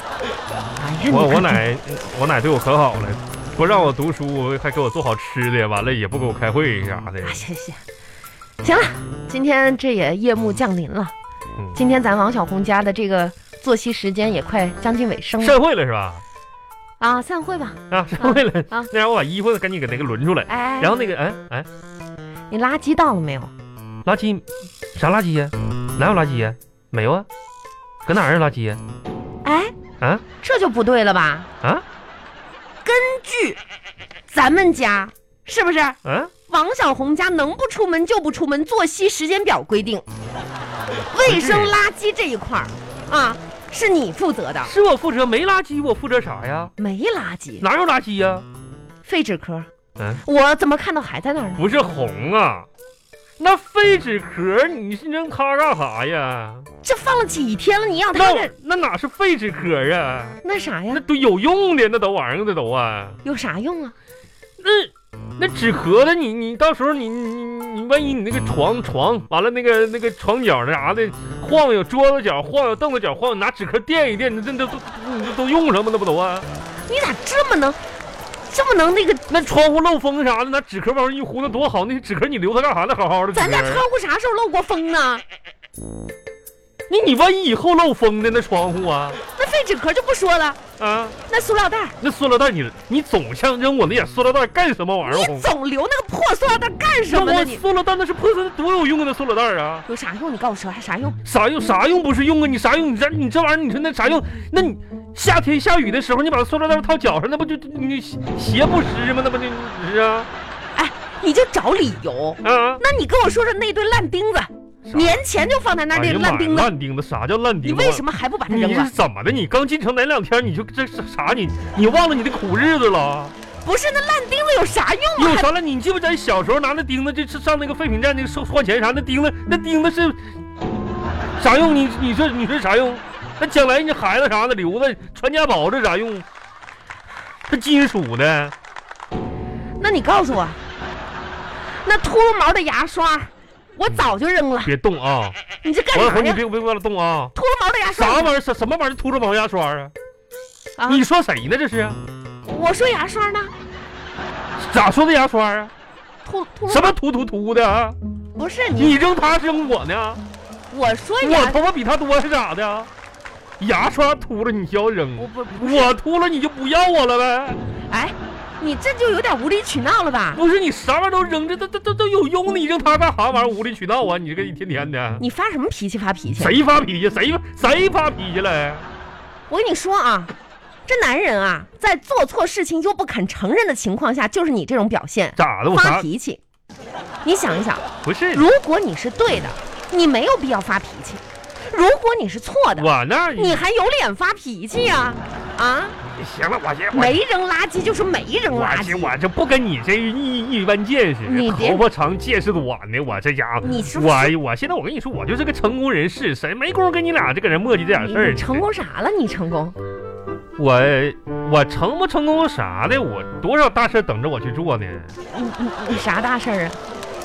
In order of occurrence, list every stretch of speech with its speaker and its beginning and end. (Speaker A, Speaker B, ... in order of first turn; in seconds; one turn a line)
Speaker A: 0.8-1.6
Speaker B: 1.1-7.4
Speaker A: 7.2-7.8
Speaker A: 8.6-11.1
Speaker A: 11.7-15.6
Speaker B: 15.4-16.2
Speaker A: 17.0-18.9
Speaker B: 17.9-21.7
Speaker A: 20.5-21.0
Speaker A: 22.5-23.5
Speaker B: 24.1-24.4
Speaker B: 24.9-27.3
Speaker B: 28.1-28.8
Speaker A: 29.4-29.7
Speaker A: 30.4-31.5
Speaker A: 32.8-33.6
Speaker A: 34.3-40.0
Speaker B: 36.0-36.3
Speaker A: 41.1-44.7
Speaker B: 41.3-41.8
Speaker B: 44.6-46.7
Speaker A: 46.8-47.6
Speaker B: 47.6-48.5
Speaker A: 49.0-49.7
Speaker B: 50.0-50.2
Speaker A: 50.2-51.6
Speaker B: 51.6-52.7
Speaker B: 53.4-56.7
Speaker A: 56.8-58.5
Speaker B: 58.1-60.4
Speaker A: 60.4-61.0
Speaker B: 60.9-63.2
Speaker A: 63.2-64.0
Speaker B: 64.6-76.5
Speaker A: 76.9-77.8
Speaker A: 78.5-79.2
Speaker B: 79.3-83.8
Speaker A: 83.3-85.2
Speaker B: 86.9-89.2
Speaker A: 89.3-90.6
Speaker B: 90.8-91.2
Speaker A: 91.3-92.0
Speaker B: 92.0-95.5
Speaker A: 95.0-97.6
Speaker B: 97.1-99.8
Speaker A: 99.9-101.2
Speaker B: 101.2-110.3
Speaker A: 110.8-116.7
Speaker B: 112.4-112.8
Speaker B: 114.9-115.2
Speaker B: 115.9-123.3
Speaker A: 117.6-118.9
Speaker A: 123.6-125.5
Speaker B: 125.2-130.3
Speaker B: 131.4-136.3
Speaker B: 137.5-138.5
Speaker A: 139.8-140.6
Speaker A: 141.7-144.7
Speaker B: 144.7-145.4
Speaker A: 145.6-146.4
Speaker B: 145.9-147.3
Speaker A: 147.3-148.3
Speaker B: 147.9-149.9
Speaker A: 150.8-151.0
Speaker B: 150.9-152.0
Speaker A: 152.4-153.5
Speaker B: 154.6-155.7
Speaker A: 156.2-156.9
Speaker B: 156.7-158.0
Speaker A: 158.4-159.0
Speaker B: 158.8-160.2
Speaker A: 160.7-161.6
Speaker B: 161.2-162.9
Speaker B: 163.6-167.6
Speaker A: 165.2-165.9
Speaker A: 167.9-170.4
Speaker B: 170.3-175.2
Speaker A: 175.2-176.6
Speaker B: 176.4-178.9
Speaker A: 179.5-180.3
Speaker A: 180.9-186.4
Speaker B: 185.4-186.1
Speaker A: 187.2-196.0
Speaker B: 188.0-188.4
Speaker B: 192.8-193.6
Speaker B: 196.0-197.2
Speaker A: 196.9-199.2
Speaker B: 198.5-208.7
Speaker A: 201.2-201.8
Speaker A: 203.6-204.3
Speaker A: 208.0-209.8
Speaker B: 210.6-215.1
Speaker A: 215.3-216.8